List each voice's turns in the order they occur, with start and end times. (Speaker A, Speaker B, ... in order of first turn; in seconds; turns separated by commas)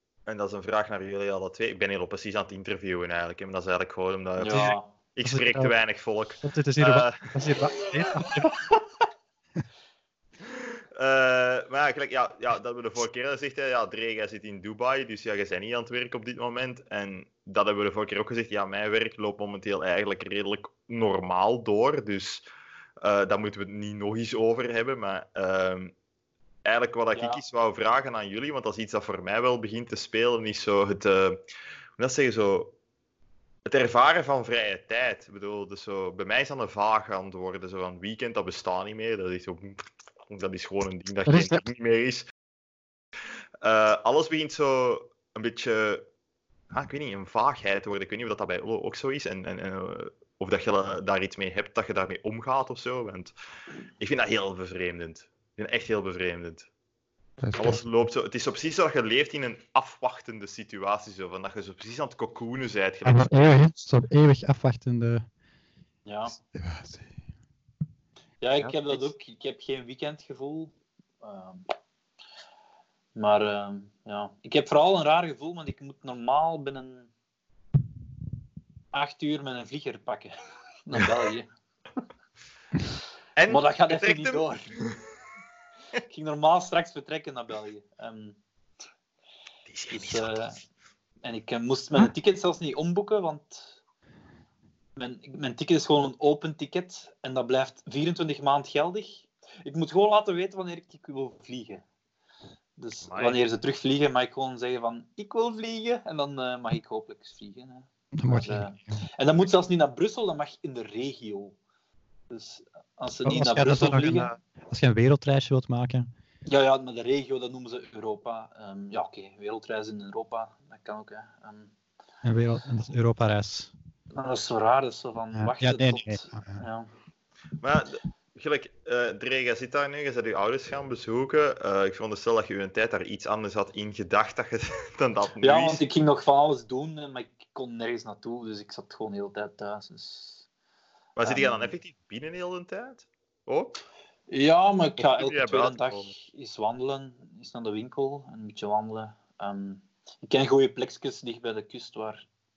Speaker A: 0.3-7.3, Speaker B: 4.4-4.9, Speaker C: 5.2-5.7, Speaker C: 6.4-8.6, Speaker A: 10.4-22.4, Speaker A: 23.0-25.9, Speaker A: 26.6-31.4, Speaker B: 27.1-27.4, Speaker A: 32.0-32.8, Speaker A: 33.7-42.2, Speaker C: 41.3-41.6, Speaker A: 43.6-46.1, Speaker A: 46.7-53.3, Speaker A: 54.0-56.7, Speaker C: 57.4-57.8, Speaker A: 57.6-63.3, Speaker C: 63.0-65.3, Speaker B: 66.1-66.4, Speaker C: 66.4-67.1, Speaker B: 68.4-71.7, Speaker B: 73.2-77.1, Speaker B: 78.9-80.3, Speaker B: 80.9-81.5, Speaker A: 83.4-85.0, Speaker B: 83.5-84.8, Speaker B: 86.1-88.4, Speaker A: 89.7-90.4, Speaker B: 89.9-90.6, Speaker B: 91.2-93.8, Speaker B: 95.0-101.8, Speaker B: 102.8-111.6, Speaker A: 103.1-103.4, Speaker C: 108.1-109.0, Speaker B: 112.3-114.3, Speaker C: 113.2-116.1, Speaker B: 116.5-121.7, Speaker C: 122.2-123.7, Speaker B: 124.1-126.9, Speaker C: 125.3-126.6, Speaker A: 127.6-135.8, Speaker B: 135.4-140.4, Speaker A: 141.2-143.8, Speaker B: 141.2-141.7, Speaker B: 144.3-152.3, Speaker A: 145.0-146.1